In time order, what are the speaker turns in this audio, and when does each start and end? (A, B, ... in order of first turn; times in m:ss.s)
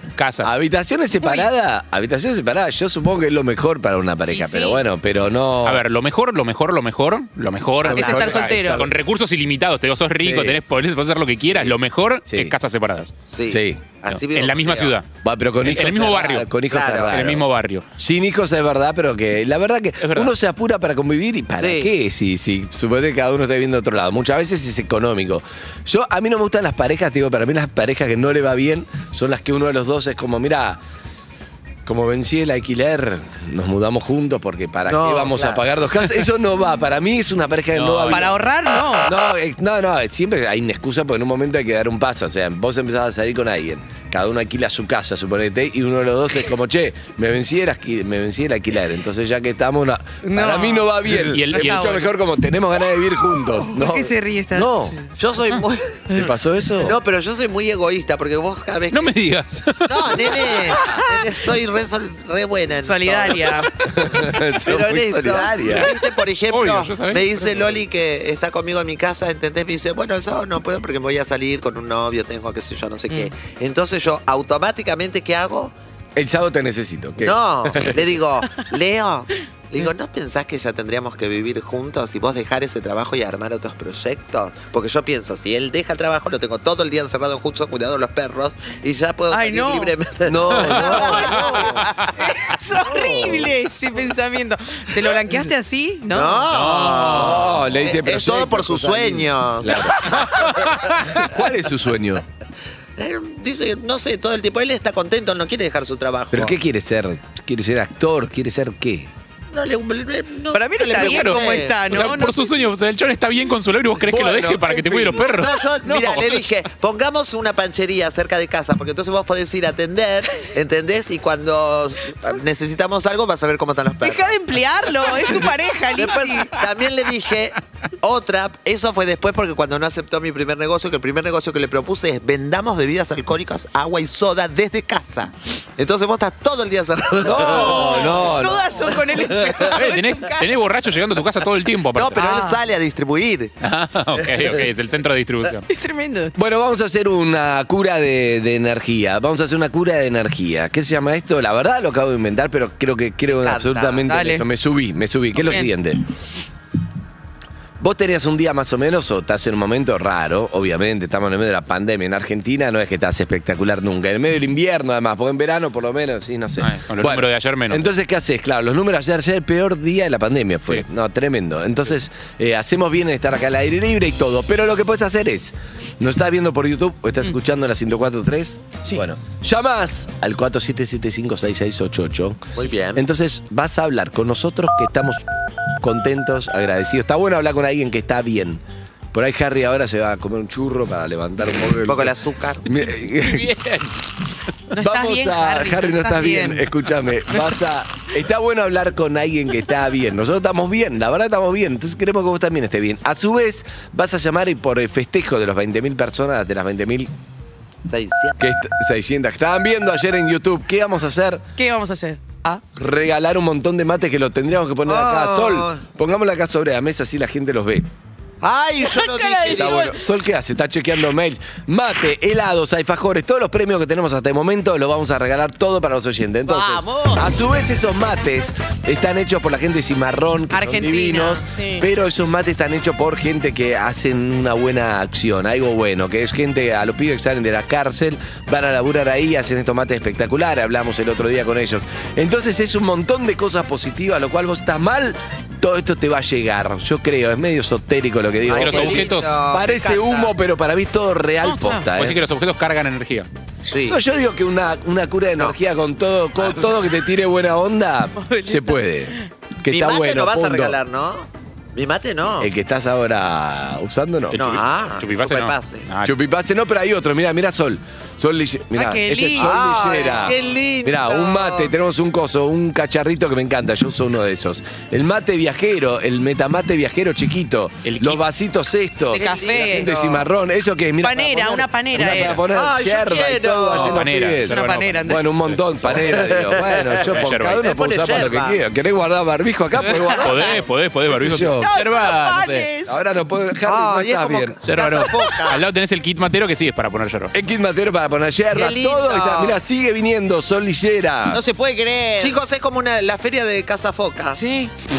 0:00.2-0:00.5 A
0:00.4-0:05.8 B
0:01.2-0:01.5 C
0:04.3-0:04.8 C
0:05.6-0:13.1 A
0:07.8-0:08.9 B
0:07.9-0:08.8 C
0:10.2-0:10.6 B
0:11.4-0:11.7 B
0:12.2-0:12.5 B
0:13.3-0:15.0 D
0:13.5-0:13.8 B
0:14.1-0:15.1 A
0:15.2-0:17.4 B
0:15.6-0:16.5 A
0:16.7-0:17.2 D
0:17.1-0:17.8 A
0:18.0-0:30.8 B
0:20.0-0:20.3 A
0:21.6-0:21.9 D
0:31.8-0:38.4 B
0:34.9-0:35.6 D
0:37.7-0:38.3 A
0:38.1-0:39.1 C
0:39.0-0:55.0 B
0:50.2-0:50.9 C
0:51.1-0:51.9 A
0:51.5-0:52.1 C
0:53.4-0:55.1 C
0:55.2-0:56.1 D
0:56.1-0:57.0 B
0:56.8-0:59.1 D
0:58.9-1:00.9 A
0:59.8-1:15.7 D
1:00.7-1:01.0 B
1:02.8-1:03.7 C
1:03.8-1:05.9 B
1:05.6-1:05.9 A
1:06.5-1:07.7 A
1:16.2-1:18.1 B
1:17.2-1:31.9 D
1:29.3-1:29.9 C
1:30.2-1:31.6 B
1:30.6-1:36.5 C
1:32.8-1:33.5 B
1:36.1-1:41.1 D
1:36.5-1:37.5 A
1:37.1-1:40.5 B
1:40.3-1:41.2 A
1:41.1-1:42.2 B
1:43.0-1:46.6 D
1:46.3-1:49.1 B
1:49.5-1:52.1 D
1:50.5-1:52.5 C
1:50.9-1:55.5 A
1:54.0-1:55.3 B
1:55.2-2:04.4 D
1:55.8-1:56.4 C
2:04.0-2:06.5 C
2:05.9-2:18.4 D
2:17.2-2:18.7 B
2:17.2-2:20.4 C
2:19.7-2:22.2 A
2:21.9-2:23.5 D
2:22.2-2:22.6 C
2:23.6-2:25.6 A
2:24.1-2:24.6 D
2:25.7-2:26.3 C
2:26.4-2:36.0 B
2:33.3-2:34.1 D
2:34.1-2:34.4 C
2:35.3-2:35.7 C
2:37.8-3:05.2 B
2:46.6-2:47.8 A
3:02.6-3:03.0 D
3:05.8-3:08.6 B
3:09.1-3:13.5 B
3:11.9-3:12.6 D
3:13.2-3:14.0 A
3:14.7-3:16.6 C
3:14.7-3:27.1 B
3:27.8-3:28.4 D
3:28.4-3:31.4 B
3:31.5-3:32.6 C
3:32.7-3:37.8 B
3:34.8-3:35.8 D
3:38.4-3:39.9 D
3:38.8-3:39.9 C
3:39.4-4:12.2 B
3:46.5-3:47.3 C
3:50.5-3:51.8 C
4:08.4-4:10.3 D
4:08.5-4:09.4 A
4:11.4-4:11.8 C
4:11.9-4:13.3 A
4:13.7-4:14.0 D
4:13.8-4:20.8 B
4:18.2-4:19.2 C
4:19.7-4:22.5 D
4:22.4-4:24.6 B
4:24.3-4:26.1 A
4:24.3-4:25.9 D
4:26.0-4:51.7 B
4:28.7-4:29.5 C
4:29.3-4:31.7 D
4:37.8-4:38.2 A
4:39.1-4:40.3 D
4:39.1-4:39.9 C
4:41.0-4:42.4 C
4:42.5-4:44.0 D
4:43.6-4:45.3 C
4:43.7-4:45.6 A
4:45.8-4:48.6 D
4:47.1-4:47.6 A
4:50.0-4:50.6 C
4:50.2-4:52.7 A
4:51.5-4:52.9 C
4:52.9-4:54.6 B
4:53.6-4:55.6 D
4:54.6-4:57.3 A
4:57.3-5:01.4 B
4:58.5-4:59.6 D
5:01.3-5:02.4 C
5:02.2-5:04.4 D
5:04.3-5:04.7 C